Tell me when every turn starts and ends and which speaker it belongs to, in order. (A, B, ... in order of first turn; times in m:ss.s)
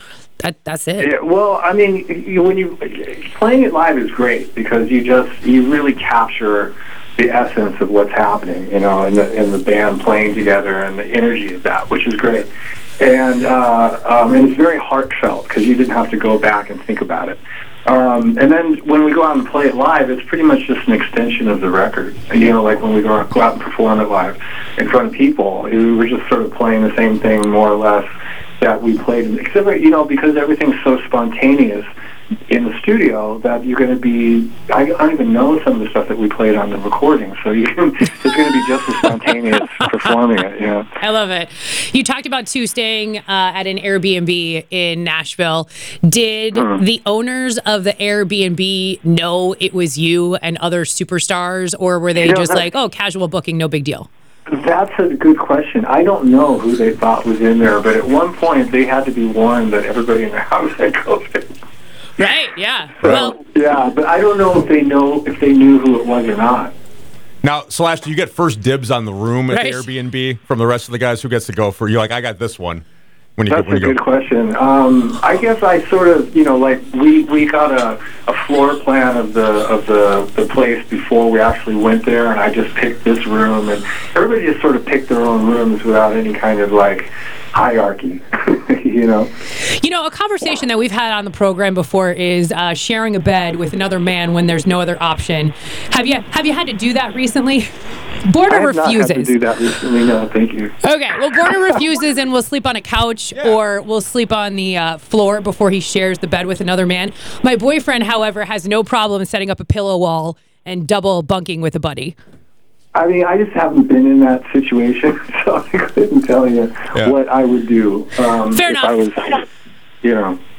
0:00.4-0:01.1 A
0:01.0-0:28.1 B
0:28.6-0:31.9 B
0:32.5-0:40.9 B
0:41.0-0:54.1 A
0:46.5-0:46.8 B
0:52.2-0:52.7 B
0:54.5-1:01.5 B
1:02.2-1:03.4 A
1:03.0-1:06.7 B
1:07.4-1:12.8 C
1:09.5-1:09.8 A
1:13.4-1:14.0 C
1:13.5-1:29.3 B
1:29.6-1:37.7 A
1:38.2-1:39.4 A
1:38.5-1:40.7 B
1:40.8-1:52.1 A
1:52.9-1:59.4 B
1:58.5-1:59.0 A
2:00.0-2:00.4 B